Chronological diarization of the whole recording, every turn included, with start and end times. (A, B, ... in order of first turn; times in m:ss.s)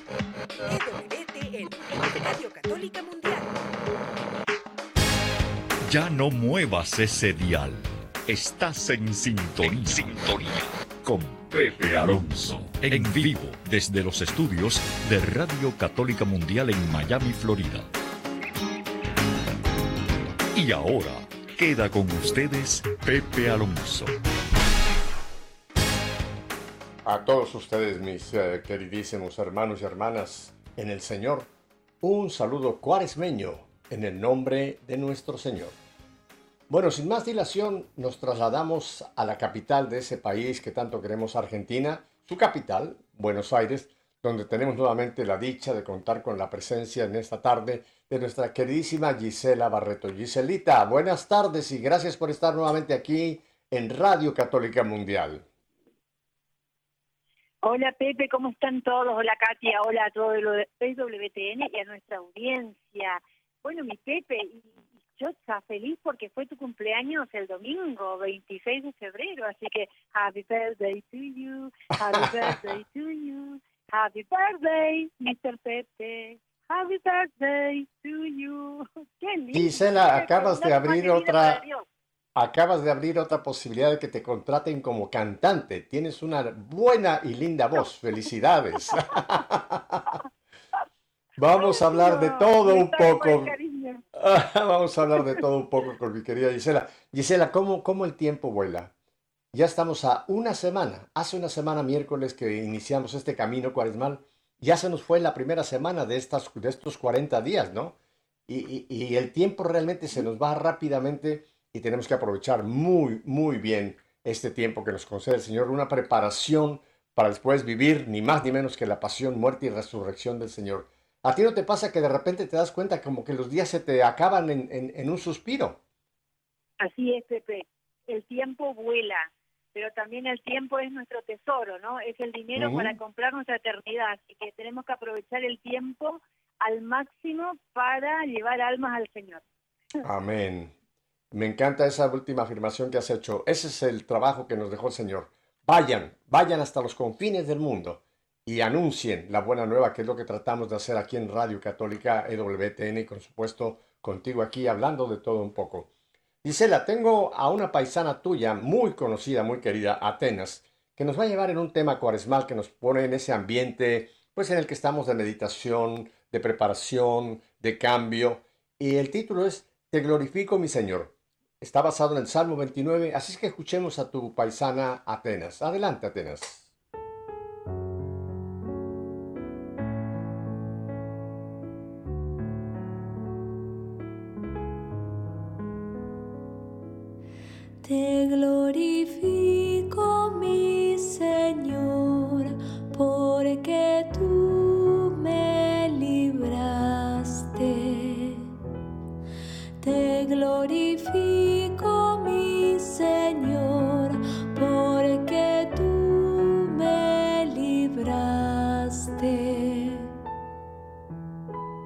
0:00.7-0:03.5 A
0:05.8-0:17.9 B
0:20.5-0:24.1 B
0:27.0-0:31.5 C
0:32.0-0:35.8 C
0:36.7-0:55.4 C
0:57.6-1:21.8 D
1:12.1-1:12.5 C
1:19.5-1:21.6 C
1:22.3-1:30.2 C
1:31.4-1:33.5 C
1:31.5-1:34.0 D
1:34.1-1:38.9 C
1:39.5-1:48.0 C
1:48.5-2:05.8 C
2:06.8-2:19.4 D
2:12.5-2:13.0 C
2:20.0-2:20.7 C
2:21.3-2:35.9 C
2:36.4-2:56.7 C
3:07.8-3:18.5 E
3:19.8-3:30.1 E